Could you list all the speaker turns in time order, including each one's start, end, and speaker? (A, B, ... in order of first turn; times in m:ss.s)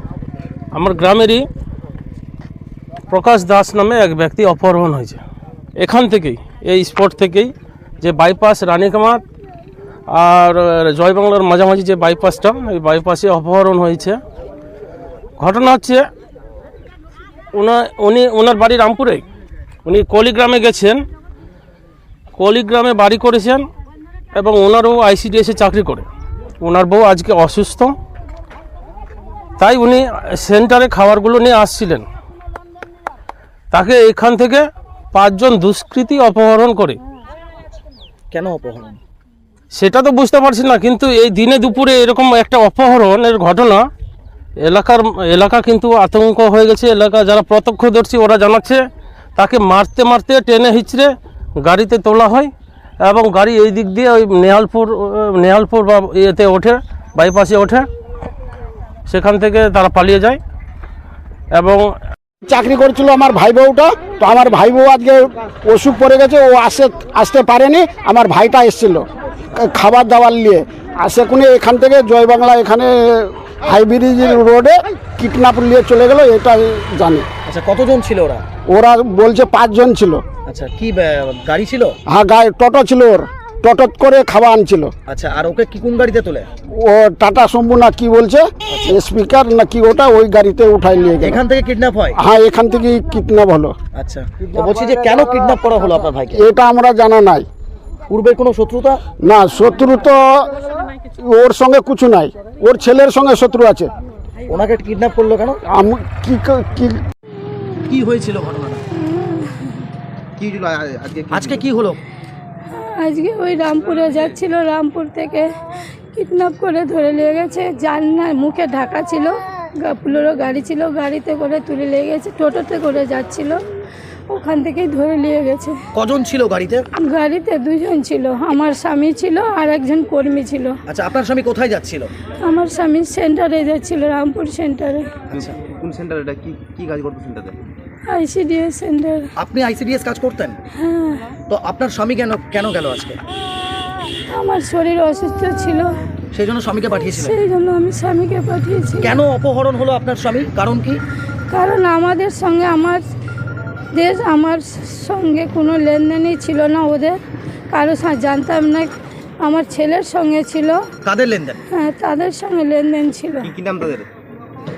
0:00.7-0:01.5 A
0:03.1-0:05.2 A
0:05.8-0:09.2 A
0:10.1-0:14.2 A
0:15.4-0:16.1 A
0:17.6-0:19.2 A
0:19.8-0:21.0 A
0:22.4-0:23.6 A
0:24.4-0:26.1 A
0:26.6-0:27.9 A
0:29.6-0:32.1 A
0:33.7-0:37.0 A
0:38.3-0:39.0 B
0:39.7-0:43.9 A
0:44.6-0:48.8 A
0:49.4-0:51.1 A
0:51.6-0:52.5 A
0:53.0-0:57.9 A
0:59.1-1:00.4 A
1:01.5-1:01.9 A
1:02.4-1:09.0 C
1:09.6-1:17.3 C
1:17.4-1:18.4 B
1:18.7-1:20.2 C
1:20.5-1:22.0 B
1:22.1-1:24.9 C
1:25.1-1:26.5 B
1:26.7-1:31.4 C
1:28.7-1:29.0 B
1:31.2-1:32.2 B
1:32.2-1:33.8 C
1:34.0-1:36.4 B
1:36.3-1:37.5 C
1:38.1-1:39.0 B
1:39.2-1:43.9 C
1:44.5-1:45.6 B
1:45.7-1:47.0 C
1:47.9-1:48.8 B
1:49.0-1:49.8 D
1:50.4-1:51.7 E
1:51.3-1:52.0 B
1:52.7-1:55.5 D
1:56.1-2:03.6 D
2:04.3-2:05.8 D
2:05.9-2:06.9 B
2:06.9-2:10.8 D
2:10.9-2:12.1 B
2:12.4-2:15.2 D
2:15.3-2:17.7 E
2:18.1-2:19.3 D
2:19.4-2:20.6 B
2:20.7-2:21.3 D
2:21.5-2:23.2 B
2:24.3-2:25.9 D
2:26.3-2:27.4 B
2:27.1-2:29.2 D
2:29.0-2:31.0 B
2:31.5-2:33.0 D
2:33.9-2:37.2 D
2:37.7-2:40.8 D
2:41.0-2:41.6 B
2:41.7-2:43.5 D
2:43.4-2:44.1 E